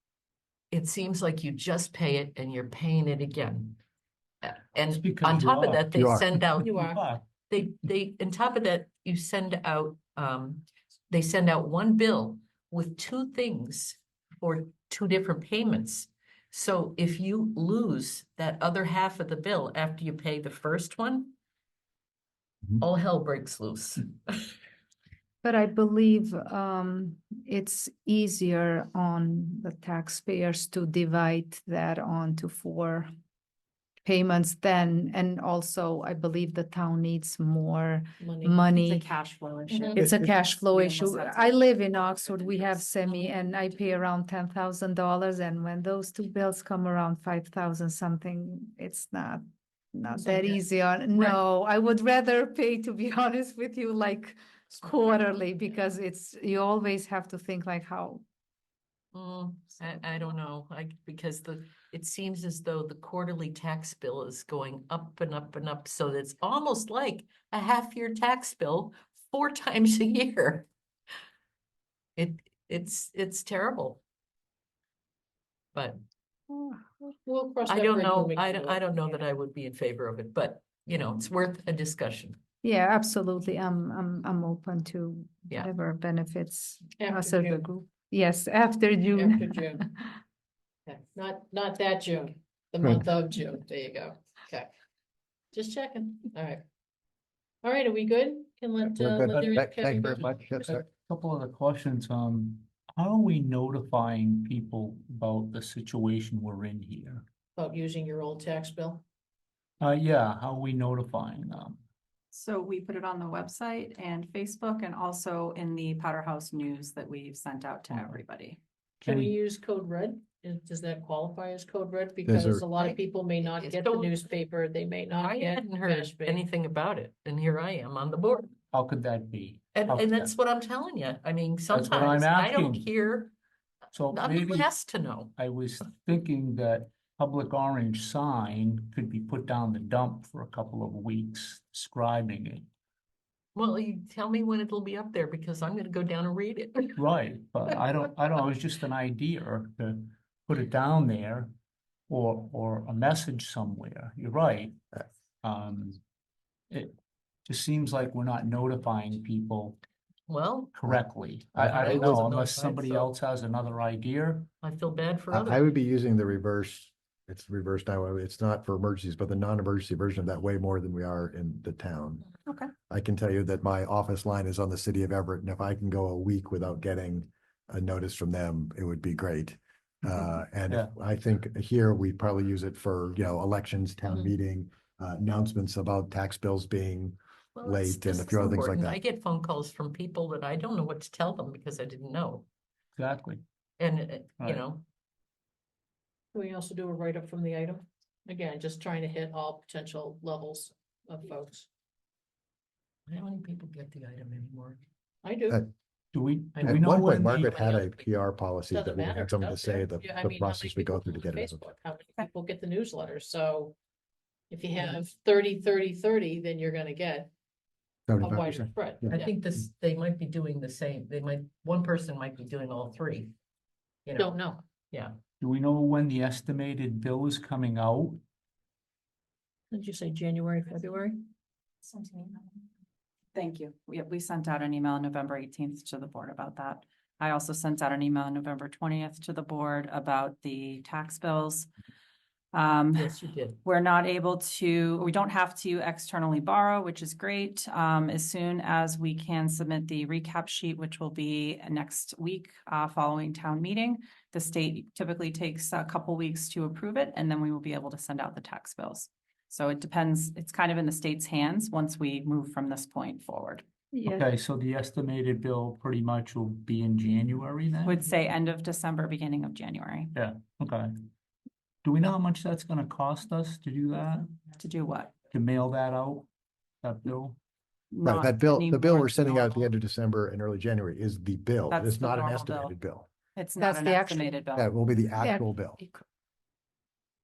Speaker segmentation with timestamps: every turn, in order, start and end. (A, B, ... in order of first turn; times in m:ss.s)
0:00.7-0:03.8 A
0:04.4-0:06.8 A
0:04.9-0:06.0 B
0:06.0-0:06.3 C
0:06.6-0:07.2 B
0:06.6-0:07.0 D
0:07.4-0:21.3 A
0:22.8-0:24.5 A
0:25.4-0:33.1 E
0:34.0-0:39.1 E
0:38.2-0:38.6 D
0:38.6-0:43.5 F
0:39.7-0:40.0 D
0:39.9-0:58.2 E
0:59.1-1:10.7 A
1:12.2-1:14.0 A
1:17.2-1:18.9 D
1:17.6-1:22.4 A
1:22.6-1:30.1 E
1:26.9-1:27.6 D
1:29.1-1:29.8 D
1:30.8-1:34.7 D
1:35.5-1:36.6 D
1:37.6-1:40.7 D
1:38.8-1:40.8 C
1:40.7-1:47.2 B
1:47.6-1:49.0 D
1:49.8-1:51.8 B
1:52.3-1:58.6 F
1:59.0-2:06.4 D
1:59.0-1:59.3 B
2:02.3-2:02.6 C
2:02.7-2:04.1 A
2:05.2-2:08.5 A
2:08.7-2:10.3 B
2:09.7-2:13.3 A
2:11.7-2:12.9 B
2:13.9-2:14.7 B
2:14.1-2:15.3 A
2:15.3-2:22.7 B
2:23.5-2:27.0 A
2:27.0-2:31.5 B
2:32.1-2:34.8 B
2:35.4-2:36.0 B
2:36.7-2:39.8 B
2:40.3-2:40.7 A
2:40.7-2:44.5 B
2:41.6-2:43.1 A
2:41.9-2:42.2 C
2:44.6-2:45.7 A
2:45.3-2:52.3 C
2:52.9-3:09.0 C
3:07.5-3:12.4 A
3:13.0-3:13.4 B
3:13.8-3:14.8 A
3:16.3-3:21.7 D
3:23.1-3:24.8 A
3:25.2-3:25.6 D
3:26.1-3:27.5 B
3:26.6-3:31.6 C
3:26.7-3:28.0 A
3:28.7-3:33.7 D
3:34.5-3:37.3 D
3:38.1-3:39.2 C
3:38.2-3:39.3 D
3:39.1-3:43.3 A
3:44.0-3:44.3 A
3:44.1-3:44.6 D
3:44.9-3:45.2 A
3:45.4-3:48.2 B
3:49.7-3:51.2 D
3:51.8-3:52.6 F
3:53.3-4:01.7 F
4:02.5-4:23.6 F
4:02.9-4:03.6 A
4:23.9-4:24.3 E
4:24.0-4:28.0 B
4:27.8-4:30.1 F
4:30.1-4:30.9 B
4:31.8-4:34.4 B
4:34.5-4:35.1 F
4:35.3-4:36.3 B
4:36.8-4:37.4 B
4:37.9-4:39.7 F
4:38.0-4:43.1 C
4:41.7-4:42.7 F
4:43.4-4:44.7 F
4:43.6-4:44.4 E
4:44.5-4:45.8 C
4:45.2-4:46.0 E